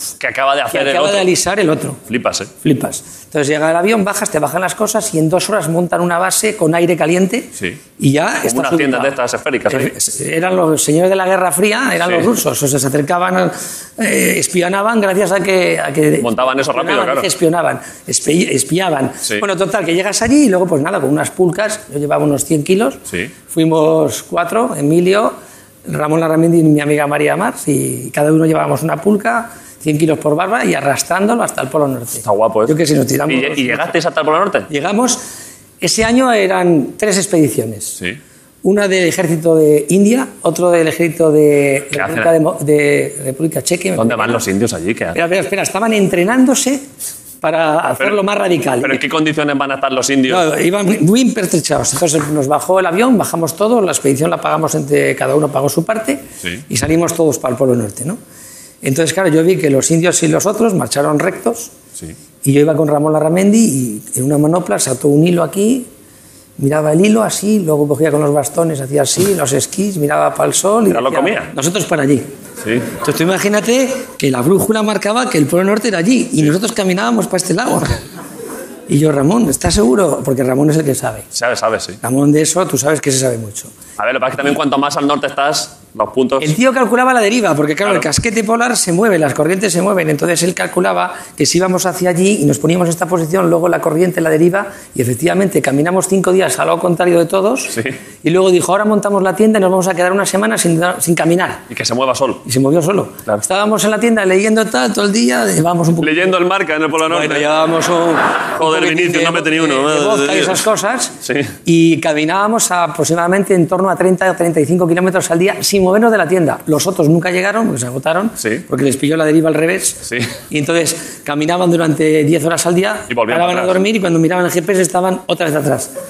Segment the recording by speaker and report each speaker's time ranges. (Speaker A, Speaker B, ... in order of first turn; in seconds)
Speaker A: 0.2-1.3, 2.1-2.5, 8.4-9.9, 16.2-17.3, 32.2-32.8, 33.3-34.7, 41.9-42.3, 44.0-45.2, 48.8-50.5, 70.9-71.5, 72.6-72.9, 81.3-82.0, 84.0-86.5, 101.7-102.4, 106.0-107.5, 108.6-110.6, 111.2-111.5, 120.1-120.4, 123.1-123.7
Speaker B: 0.7-2.0, 2.6-9.1, 9.7-25.3, 25.9-33.9, 34.7-35.2, 35.8-38.0, 38.6-44.4, 45.1-46.8, 47.4-49.0, 50.3-58.2, 58.8-61.7, 62.4-65.9, 66.6-72.3, 72.9-78.0, 78.9-81.2, 82.0-83.7, 86.4-101.6, 102.4-106.2, 107.0-111.1, 111.7-125.9